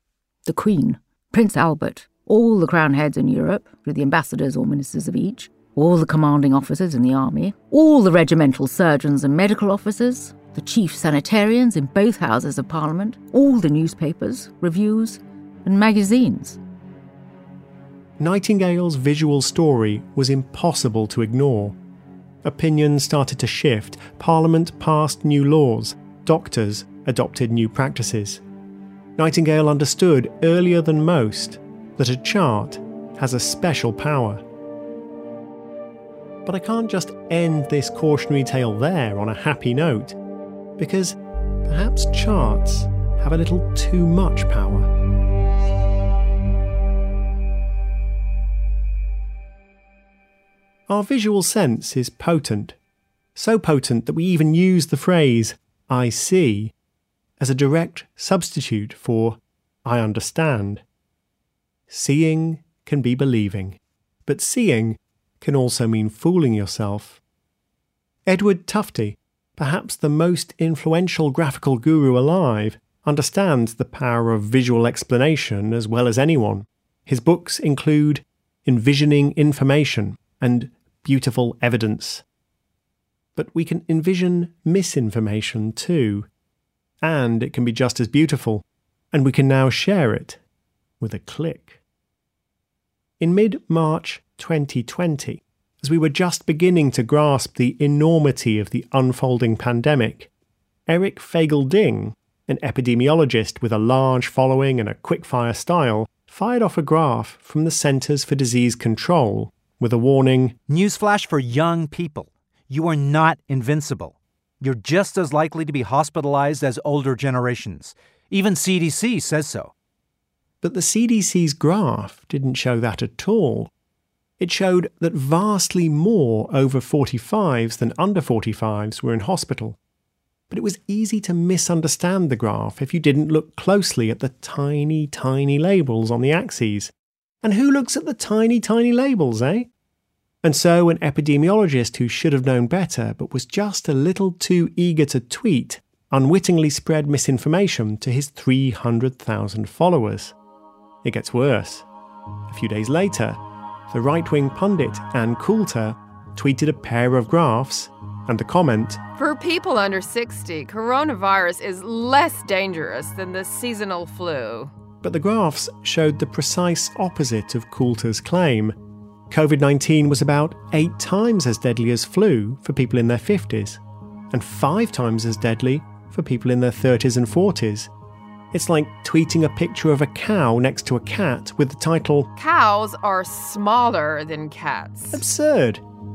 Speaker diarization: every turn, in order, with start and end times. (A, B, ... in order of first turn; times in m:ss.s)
0:00.4-0:16.6 A
0:18.2-0:21.8 B
0:22.4-0:28.4 B
0:29.2-0:34.4 B
0:36.4-0:40.2 B
0:40.8-0:44.9 B
0:50.9-0:52.8 B
0:53.4-0:56.7 B
0:57.4-1:00.8 B
1:01.9-1:07.2 B
1:08.3-1:22.2 B
1:23.4-1:26.3 B
1:27.0-1:30.4 B
1:31.0-1:31.8 B
1:33.2-1:40.3 B
1:40.9-1:50.6 B
1:50.7-1:59.7 C
2:00.6-2:03.7 B
2:04.4-2:09.8 B
2:10.5-2:19.7 B
2:20.4-2:30.4 B
2:31.0-2:31.9 B
2:32.5-2:39.0 B
2:39.2-2:44.7 D
2:45.0-2:48.8 B
2:49.3-2:57.9 B
2:58.5-3:02.3 B
3:02.4-3:05.2 D
3:05.1-3:05.8 B